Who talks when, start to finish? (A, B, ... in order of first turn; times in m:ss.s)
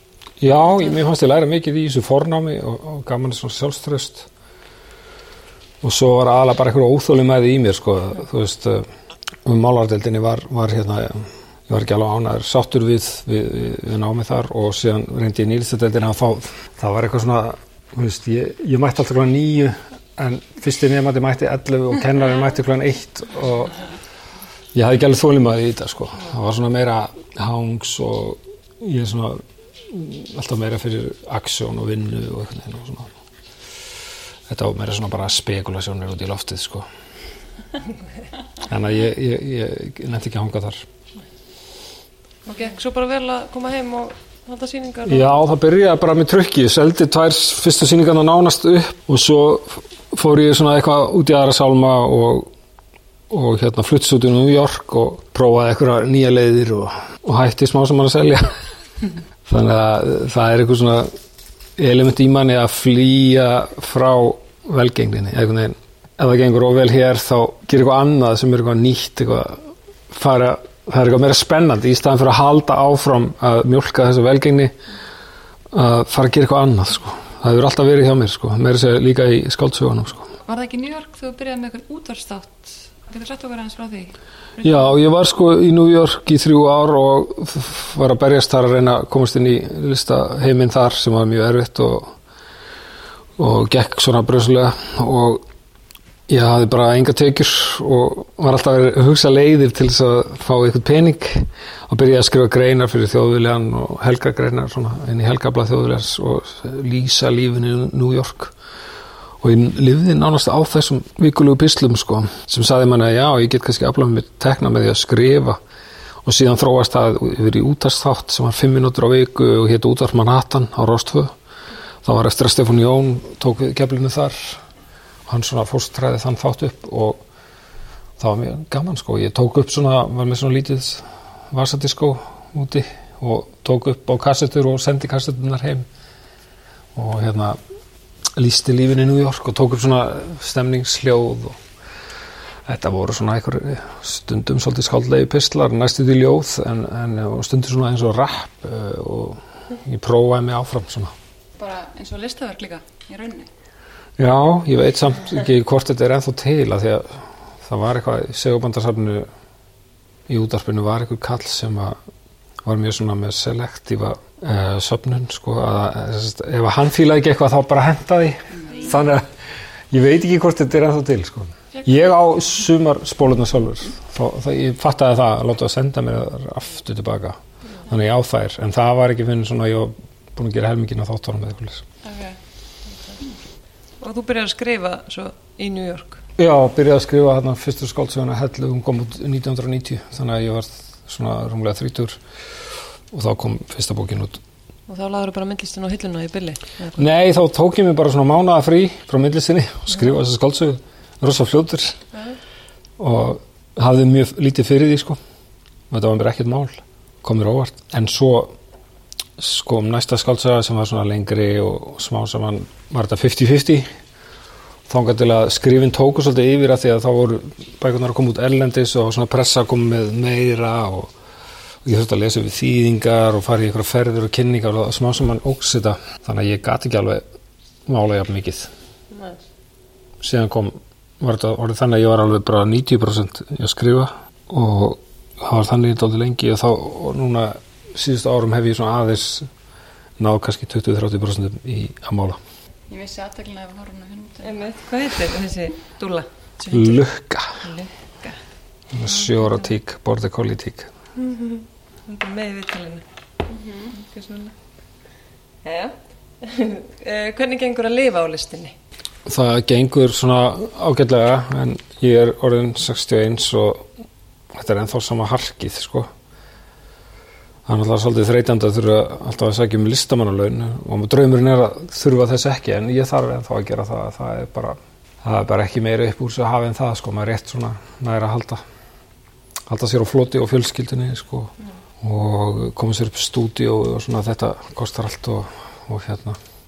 0:00.4-0:04.3 A
0:05.8-0:08.9 A
0:09.4-0:23.8 A
0:24.7-0:33.1 A
0:34.5-0:36.9 A
0:38.6-0:40.8 A
0:42.4-0:45.3 B
0:45.0-0:52.5 A
0:53.3-0:58.6 A
0:59.5-1:01.1 A
1:01.8-1:14.8 A
1:15.7-1:20.3 A
1:20.4-1:24.9 C
1:24.6-1:32.1 A
1:33.4-1:35.4 A
1:36.3-1:48.5 A
1:49.4-1:55.6 A
1:56.2-2:01.3 A
2:02.0-2:04.6 A
2:05.3-2:07.2 A
2:08.2-2:15.8 A
2:16.9-2:17.6 A
2:18.4-2:21.6 A
2:22.6-2:31.1 A
2:31.6-2:33.5 C
2:34.2-2:39.3 A
2:40.3-2:42.0 A
2:42.6-2:49.3 A
2:49.9-3:01.8 A
3:02.0-3:02.4 C
3:04.0-3:06.2 B
3:06.4-3:12.2 A
3:13.1-3:14.4 A
3:14.9-3:17.0 B
3:17.0-3:22.0 A
3:23.0-3:25.2 A
3:25.9-3:28.5 A
3:29.4-3:33.9 A
3:34.9-3:41.1 A
3:41.8-3:47.2 A
3:47.9-3:48.7 A
3:49.1-3:49.4 B
3:50.2-3:59.5 A
4:00.2-4:02.4 A
4:02.9-4:04.7 C
4:04.4-4:08.4 B
4:06.7-4:07.6 A
4:08.9-4:10.9 A
4:11.2-4:13.0 B
4:13.5-4:13.9 C
4:13.9-4:14.5 B
4:15.6-4:18.7 B
4:19.2-4:23.9 A
4:24.5-4:26.1 A
4:27.6-4:38.6 A
4:39.7-4:46.4 A